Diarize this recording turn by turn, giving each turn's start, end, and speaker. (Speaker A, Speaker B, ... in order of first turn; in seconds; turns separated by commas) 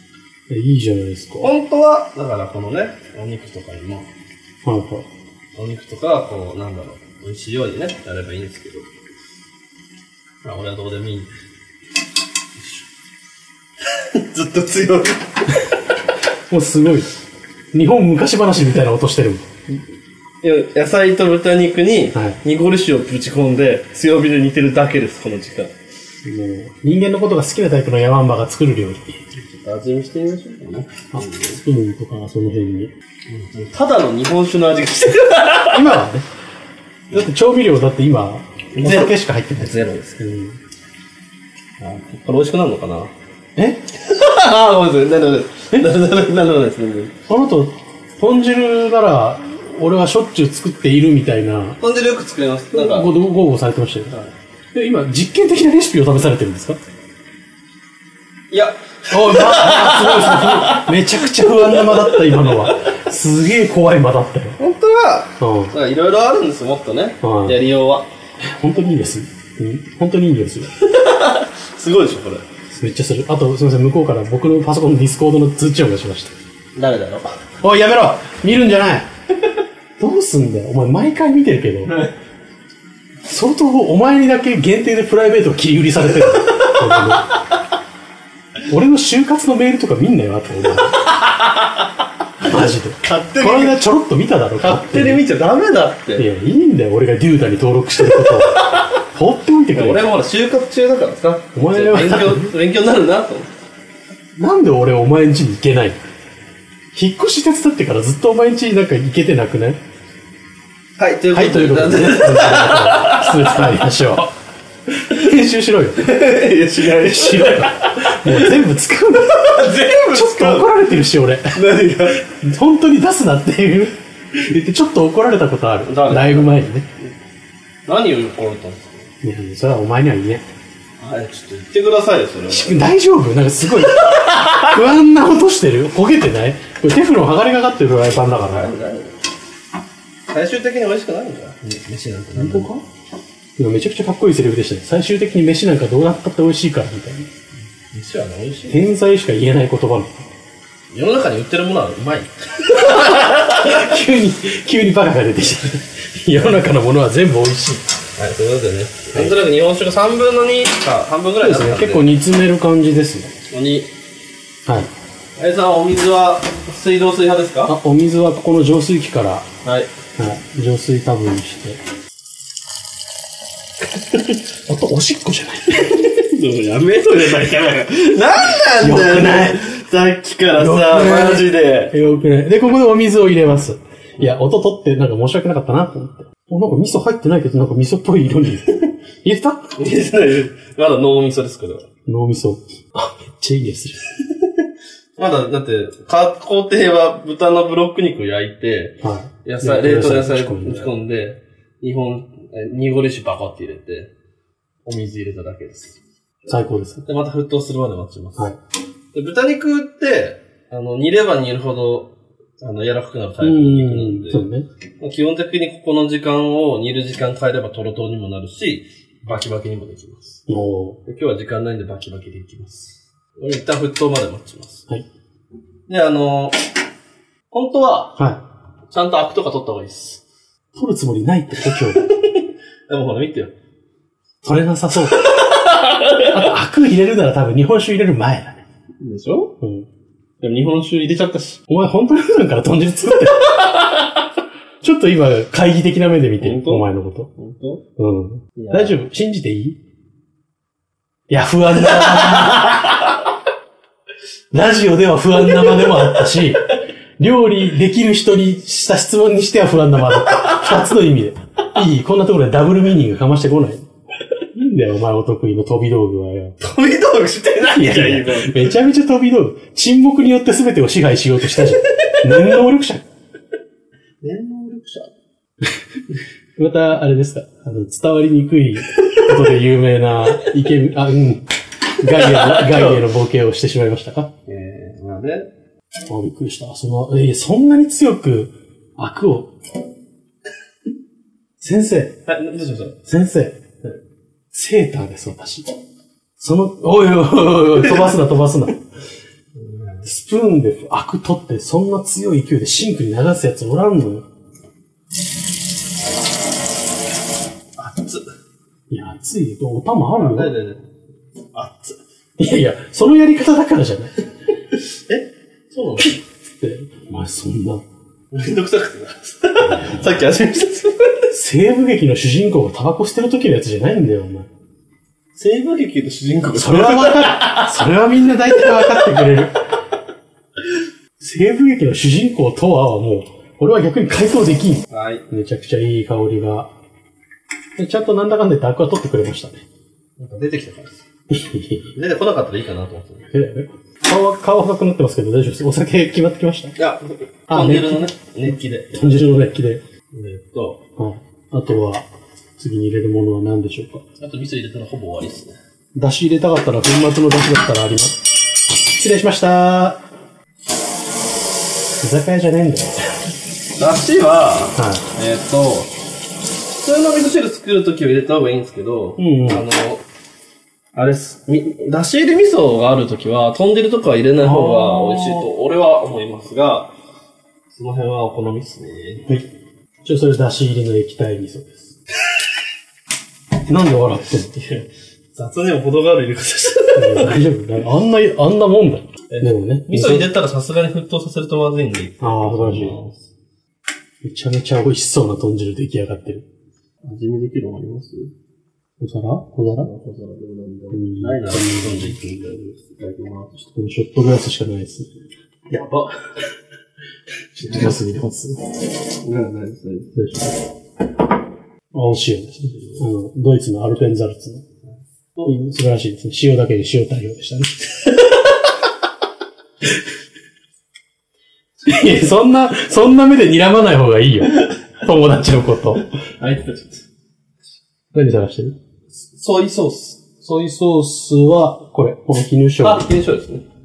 Speaker A: 0.5-1.5, Speaker B: 1.4-4.1, Speaker A: 4.7-5.1, Speaker B: 5.5-8.9, Speaker B: 10.4-11.3, Speaker B: 13.9-15.2, Speaker A: 16.5-17.1, Speaker A: 17.7-19.5, Speaker B: 20.4-25.7, Speaker A: 26.2-29.2, Speaker B: 29.3-31.6, Speaker A: 31.1-32.9, Speaker B: 33.3-35.9, Speaker A: 35.6-36.3, Speaker A: 37.1-40.6, Speaker B: 38.8-40.2, Speaker B: 41.8-43.1, Speaker A: 43.6-43.8, Speaker B: 43.9-47.1, Speaker A: 47.3-51.8, Speaker B: 51.8-53.1, Speaker A: 52.7-54.1, Speaker A: 54.7-56.8, Speaker B: 58.5-62.8, Speaker A: 59.1-64.6, Speaker B: 64.6-68.1, Speaker A: 65.4-65.7, Speaker A: 67.2-67.6, Speaker A: 68.4-70.7, Speaker B: 70.8-72.5, Speaker A: 72.7-76.3, Speaker B: 76.8-77.4, Speaker A: 77.6-79.1, Speaker A: 80.0-82.0, Speaker B: 81.9-82.1, Speaker A: 83.2-87.3, Speaker B: 86.5-87.2, Speaker A: 88.7-91.0, Speaker B: 91.0-91.9, Speaker A: 92.4-95.2, Speaker B: 93.0-93.8, Speaker B: 94.6-96.3, Speaker A: 96.2-100.1, Speaker B: 98.1-98.9, Speaker B: 99.7-103.5, Speaker A: 101.5-102.5, Speaker A: 104.4-106.0, Speaker A: 106.9-109.8, Speaker B: 111.0-113.8, Speaker A: 111.3-114.3, Speaker A: 114.9-116.2, Speaker B: 116.0-118.5, Speaker A: 116.8-126.9, Speaker B: 119.3-120.9, Speaker B: 121.5-122.2, Speaker B: 125.8-126.5, Speaker B: 127.9-129.1, Speaker A: 129.2-130.4, Speaker B: 131.0-132.8, Speaker A: 132.5-138.8, Speaker B: 138.4-139.2, Speaker B: 140.3-142.7, Speaker A: 142.3-142.8, Speaker A: 143.6-147.3, Speaker B: 147.9-148.8, Speaker A: 148.7-150.3, Speaker B: 150.9-153.8, Speaker A: 152.7-157.8, Speaker B: 158.2-162.1, Speaker A: 161.4-163.3, Speaker B: 163.5-163.9, Speaker B: 165.4-167.8, Speaker A: 167.7-169.5, Speaker B: 169.6-169.9, Speaker A: 170.2-171.8, Speaker A: 174.7-175.9, Speaker B: 175.7-181.9, Speaker A: 178.7-179.7, Speaker A: 180.6-189.8, Speaker B: 189.8-191.9, Speaker A: 192.1-194.1, Speaker B: 195.2-204.1, Speaker A: 199.0-201.0, Speaker B: 204.9-206.0, Speaker A: 206.5-207.1, Speaker B: 207.1-208.5, Speaker B: 209.1-214.5, Speaker A: 213.4-214.7, Speaker B: 215.0-220.4, Speaker A: 220.5-221.0, Speaker B: 221.1-224.9, Speaker B: 225.9-226.6, Speaker B: 227.5-228.2, Speaker A: 228.2-228.4, Speaker B: 228.9-230.2, Speaker A: 230.8-232.1, Speaker B: 231.7-233.5, Speaker A: 234.4-235.3, Speaker B: 235.1-236.4, Speaker A: 236.2-238.6, Speaker B: 239.0-239.6, Speaker A: 239.6-239.9, Speaker B: 240.4-241.6, Speaker A: 241.7-243.8, Speaker A: 244.8-247.3, Speaker B: 246.4-247.8, Speaker A: 248.0-249.8, Speaker B: 248.6-249.0, Speaker A: 251.3-253.1, Speaker B: 252.2-252.8, Speaker A: 254.5-263.9, Speaker B: 255.6-256.0, Speaker B: 260.3-260.6, Speaker A: 264.5-266.6, Speaker B: 266.6-268.7, Speaker A: 267.7-273.1, Speaker B: 271.9-272.2, Speaker B: 274.2-275.1, Speaker A: 276.6-281.5, Speaker B: 279.0-279.3, Speaker A: 282.0-284.3, Speaker B: 282.1-283.1, Speaker B: 284.5-285.5, Speaker A: 286.1-289.5, Speaker A: 291.6-292.2, Speaker B: 292.3-293.0, Speaker A: 293.1-293.9, Speaker A: 294.5-295.7, Speaker A: 296.4-298.9, Speaker B: 299.6-300.1, Speaker A: 300.1-304.3, Speaker B: 307.8-308.3, Speaker A: 308.9-310.5, Speaker B: 310.1-310.9, Speaker B: 311.5-312.0, Speaker A: 312.4-314.2, Speaker B: 315.1-316.2, Speaker A: 316.0-317.9, Speaker B: 318.3-321.3, Speaker A: 319.6-320.1, Speaker A: 321.3-324.5, Speaker B: 325.4-327.8, Speaker A: 326.6-329.6, Speaker A: 331.2-336.7, Speaker B: 334.9-335.2, Speaker A: 337.8-339.6, Speaker B: 340.2-341.0, Speaker A: 341.3-341.9, Speaker B: 341.9-343.3, Speaker A: 343.3-346.8, Speaker B: 346.8-349.1, Speaker A: 347.5-349.8, Speaker B: 350.1-350.8, Speaker A: 351.0-352.1, Speaker A: 352.6-354.1, Speaker B: 354.2-355.6, Speaker A: 355.9-358.2, Speaker A: 358.9-360.0, Speaker A: 362.0-363.2, Speaker B: 363.8-365.9, Speaker A: 364.8-365.0, Speaker B: 366.8-370.1, Speaker A: 369.2-369.6, Speaker B: 370.9-376.9, Speaker A: 374.4-375.5, Speaker B: 377.7-379.3, Speaker A: 380.0-382.0, Speaker A: 383.7-384.5, Speaker B: 384.5-387.4, Speaker A: 386.9-390.3, Speaker B: 389.3-393.3, Speaker A: 392.2-393.0, Speaker A: 394.2-396.4, Speaker B: 397.0-398.3, Speaker A: 399.0-399.9, Speaker B: 399.7-403.7, Speaker A: 400.9-402.2, Speaker A: 403.7-405.1, Speaker B: 405.7-406.3, Speaker A: 407.5-408.7, Speaker B: 409.2-410.5, Speaker A: 410.2-410.4, Speaker A: 411.9-414.6, Speaker B: 412.7-413.0, Speaker A: 415.4-418.1, Speaker A: 421.9-426.1, Speaker B: 426.4-427.1, Speaker A: 428.1-428.8, Speaker B: 429.3-430.2, Speaker A: 430.4-433.1, Speaker B: 432.8-433.6